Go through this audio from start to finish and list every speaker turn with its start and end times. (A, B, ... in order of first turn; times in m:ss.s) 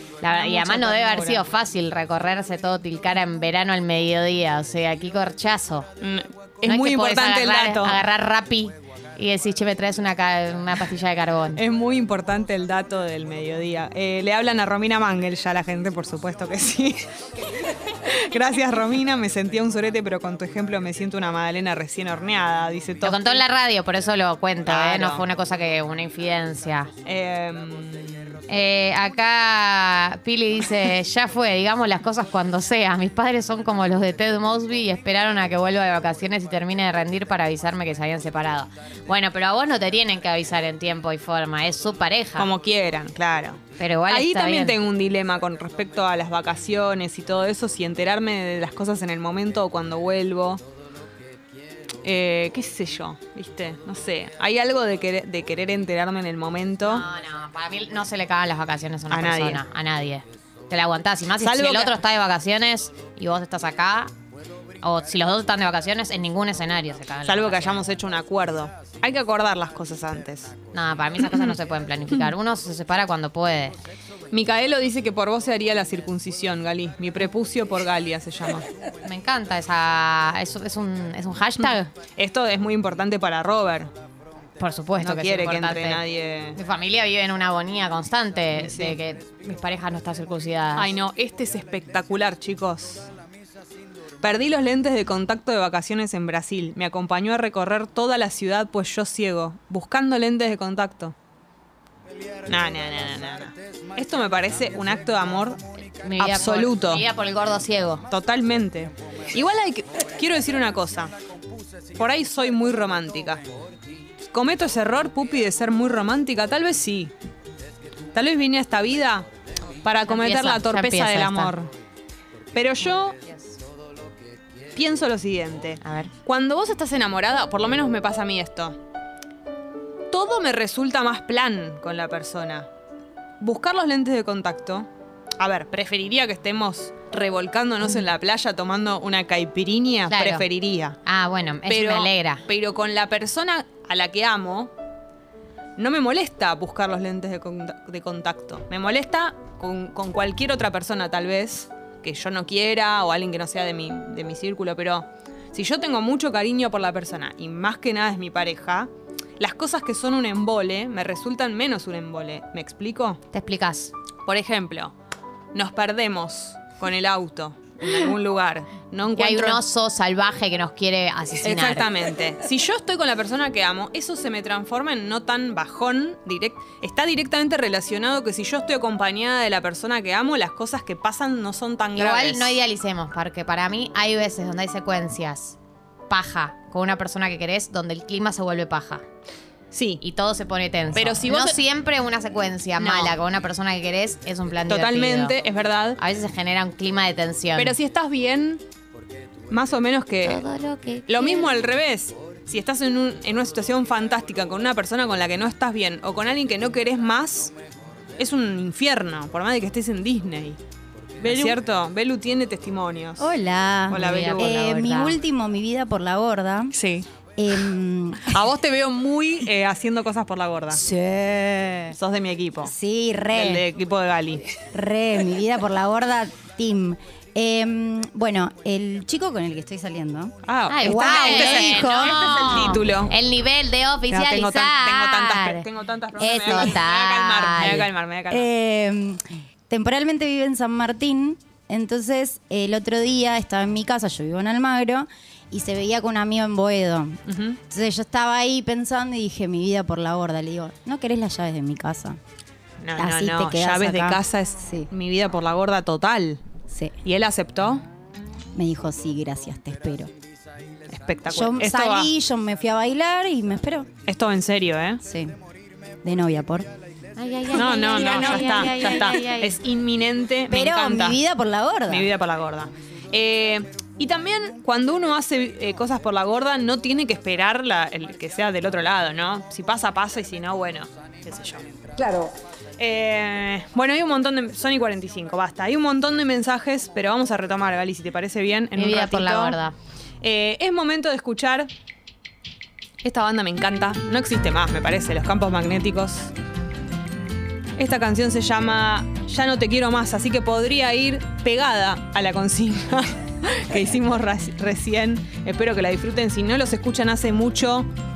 0:00.2-0:05.9 A
0:00.3-0:01.4 B
0:06.0-0:08.0 B
0:06.6-0:11.6 A
0:11.6-0:23.4 B
0:23.0-0:26.9 A
0:24.7-0:25.2 B
0:27.0-0:28.4 B
0:28.5-0:42.5 A
0:42.4-0:50.6 B
0:43.8-0:44.8 A
0:52.0-0:57.0 B
0:56.8-1:04.1 A
0:59.1-0:59.6 B
1:01.4-1:02.0 B
1:04.8-1:07.8 A
1:07.2-1:10.5 B
1:10.7-1:13.8 A
1:11.2-1:11.5 B
1:14.3-1:18.7 B
1:19.0-1:21.9 A
1:22.2-1:23.9 B
1:24.6-1:26.0 A
1:25.0-1:26.6 B
1:26.6-1:30.9 A
1:28.5-1:29.0 B
1:30.8-1:33.1 B
1:34.2-1:41.2 B
1:42.5-1:45.6 B
1:46.0-1:48.0 A
1:46.2-1:47.0 B
1:48.1-1:51.1 B
1:52.0-1:53.4 B
1:54.3-1:57.1 B
1:58.1-1:59.3 B
1:59.8-2:01.7 B
2:00.0-2:01.6 A
2:02.5-2:03.2 B
2:04.7-2:08.8 B
2:05.8-2:06.1 A
2:10.1-2:12.7 B
2:13.4-2:14.9 B
2:15.4-2:21.0 B
2:20.1-2:20.5 A
2:21.0-2:22.4 A
2:21.7-2:24.7 B
2:25.8-2:43.2 B
2:43.3-2:43.9 A
2:44.3-2:44.9 B
2:45.5-2:49.6 B
2:49.1-2:51.9 A
2:51.4-3:02.6 B
3:02.0-3:05.6 A
3:06.1-3:09.0 A
3:09.7-3:10.0 B
3:10.0-3:15.4 A
3:11.0-3:11.6 B
3:12.8-3:13.2 B
3:14.7-3:16.0 B
3:16.0-3:17.8 A
3:17.6-3:18.6 B
3:19.5-3:20.4 B
3:20.2-3:21.6 A
3:21.1-3:27.5 B
3:28.2-3:30.6 B
3:31.2-3:33.3 B
3:33.2-3:36.7 C
3:33.9-3:34.6 B
3:34.0-3:35.2 A
3:36.7-3:37.7 B
3:37.4-3:38.4 C
3:38.2-3:40.8 B
3:40.7-3:42.0 C
3:41.9-3:42.8 B
3:42.6-3:43.7 C
3:43.3-3:44.5 B
3:44.7-3:52.7 C
3:50.4-3:53.1 B
3:50.7-3:55.7 A
3:54.1-3:58.5 B
3:56.2-3:57.9 A
3:56.4-3:56.8 C
3:58.3-4:12.2 C
4:07.3-4:07.6 B
4:12.8-4:16.4 B
4:13.0-4:14.9 C
4:16.7-4:17.0 C
4:17.0-4:17.8 B
4:18.6-4:20.1 C
4:20.9-4:22.1 B
4:21.3-4:23.9 C
4:24.0-4:25.0 B
4:25.0-4:25.4 C
4:26.0-4:26.7 C
4:27.2-4:29.6 A
4:27.5-4:31.2 B
4:27.6-4:28.5 C
4:30.5-4:32.1 C
4:31.9-4:49.6 B
4:48.8-4:49.8 A
4:50.2-4:51.7 B
4:53.0-4:56.3 B
4:57.8-5:07.9 B